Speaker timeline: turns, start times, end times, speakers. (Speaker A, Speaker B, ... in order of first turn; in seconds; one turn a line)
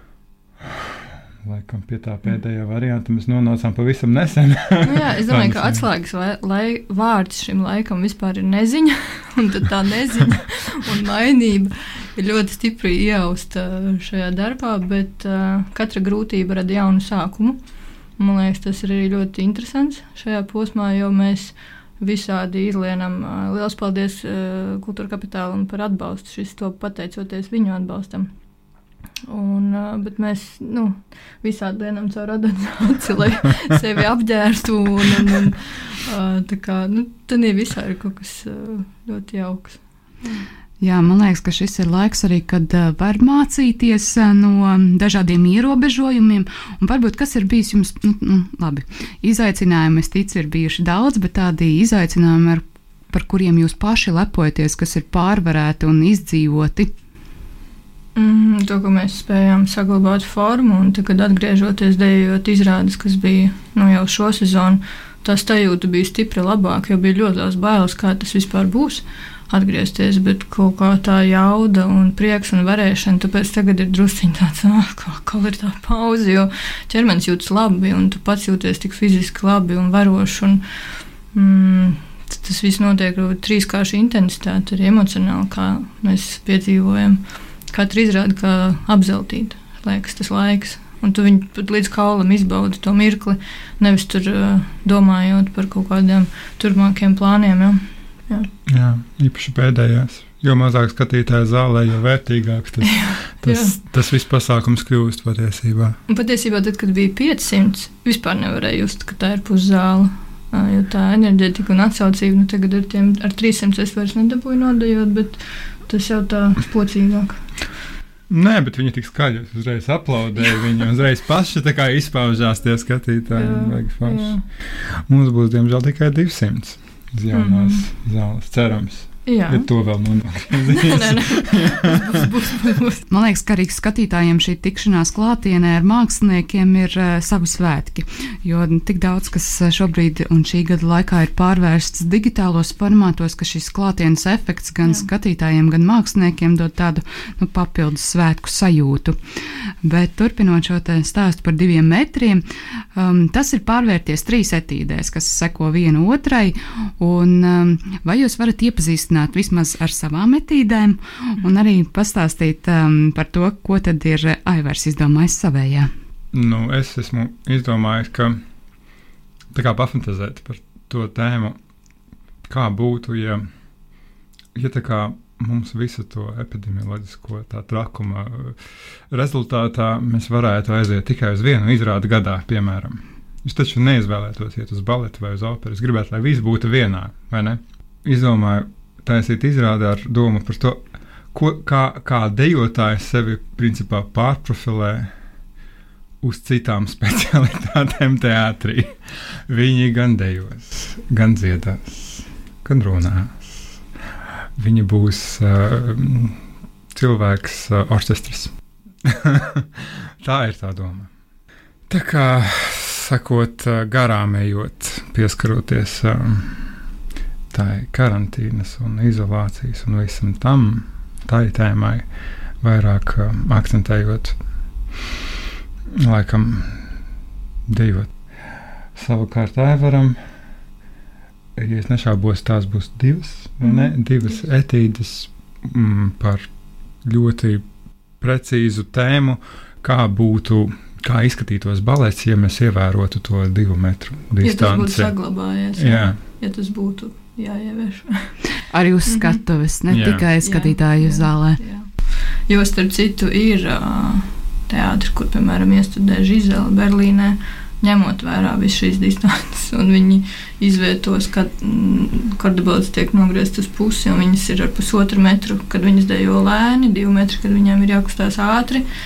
Speaker A: 0.6-5.8
Speaker B: 4.8-17.6
Speaker B: 18.2-28.3
Speaker B: 29.3-40.4
Speaker C: 40.8-56.9
Speaker B: 58.1-80.6
Speaker B: 81.3-98.5
Speaker A: 98.7-106.0
Speaker B: 102.8-103.8
Speaker B: 106.1-117.4
Speaker A: 118.3-132.2
Speaker B: 123.4-124.4
Speaker B: 127.3-127.9
Speaker B: 129.2-129.7
Speaker B: 130.6-133.0
Speaker C: 133.1-149.2
Speaker C: 149.8-152.4
Speaker C: 152.9-165.9
Speaker A: 166.3-168.4
Speaker A: 169.5-171.6
Speaker A: 172.4-173.4
Speaker A: 174.5-195.1
Speaker A: 196.2-203.8
Speaker A: 204.6-208.5
Speaker A: 209.0-211.1
Speaker A: 211.9-216.8
Speaker A: 217.5-222.1
Speaker A: 222.6-224.4
Speaker A: 225.9-227.0
Speaker A: 227.7-230.2
Speaker A: 231.6-236.5
Speaker B: 233.6-233.9
Speaker A: 237.0-237.6
Speaker A: 238.2-245.1
Speaker B: 244.4-248.4
Speaker A: 245.8-246.2
Speaker C: 248.7-251.6
Speaker B: 249.1-249.4
Speaker A: 249.9-250.2
Speaker B: 250.4-251.9
Speaker B: 252.5-268.8